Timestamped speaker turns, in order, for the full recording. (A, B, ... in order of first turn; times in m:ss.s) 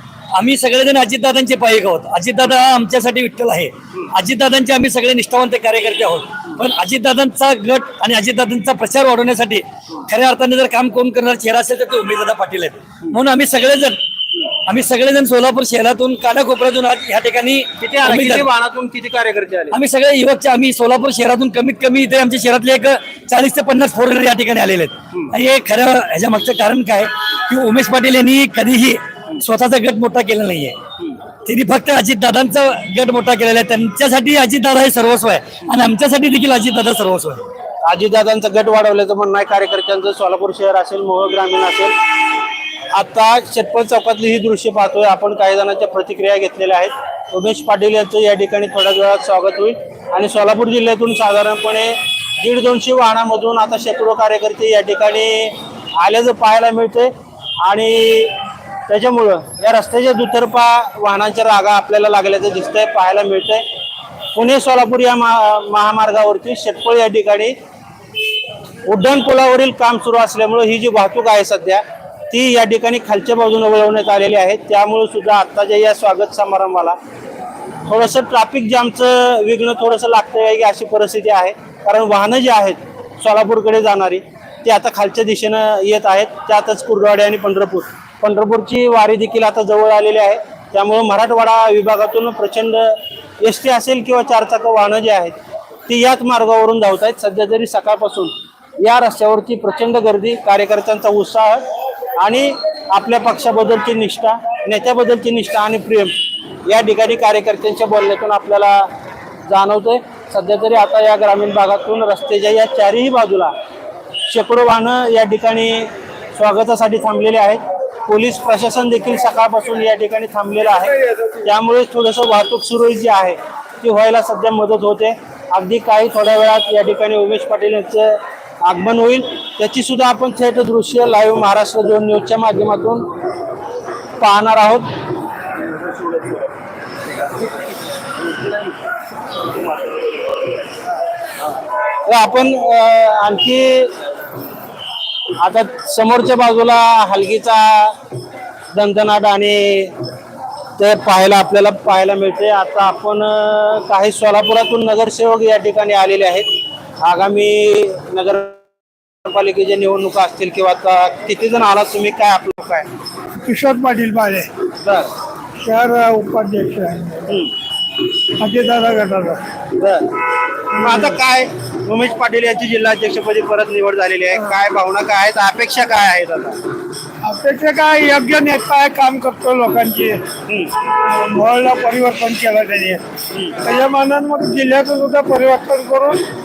0:00.3-0:14.0 A
0:14.7-0:18.5 A
0:17.8-0:19.8 B
0:19.7-0:30.8 A
0:31.4-0:37.4 A
0:37.8-0:41.9 B
0:42.9-0:57.1 B
0:57.6-0:58.3 B
0:58.9-1:03.6 B
1:04.4-1:07.6 B
1:08.8-1:17.0 B
1:17.9-1:35.4 B
1:35.9-1:41.6 B
1:42.2-1:46.1 B
1:46.7-1:48.9 B
1:49.5-1:53.5 B
1:54.3-2:13.1 B
2:14.2-2:14.9 B
2:22.0-2:23.9 B
2:25.4-2:28.0 B
2:28.7-2:29.9 B
2:30.8-2:36.5 B
2:37.0-2:38.6 B
2:39.2-2:42.9 B
2:43.4-2:44.5 C
2:44.8-2:45.1 B
2:45.6-2:47.2 C
2:47.3-2:47.5 B
2:48.4-2:49.4 C
2:49.7-2:50.1 B
2:50.7-2:56.6 B
2:57.2-3:00.2 C
3:01.0-3:03.0 C
3:03.6-3:06.2 C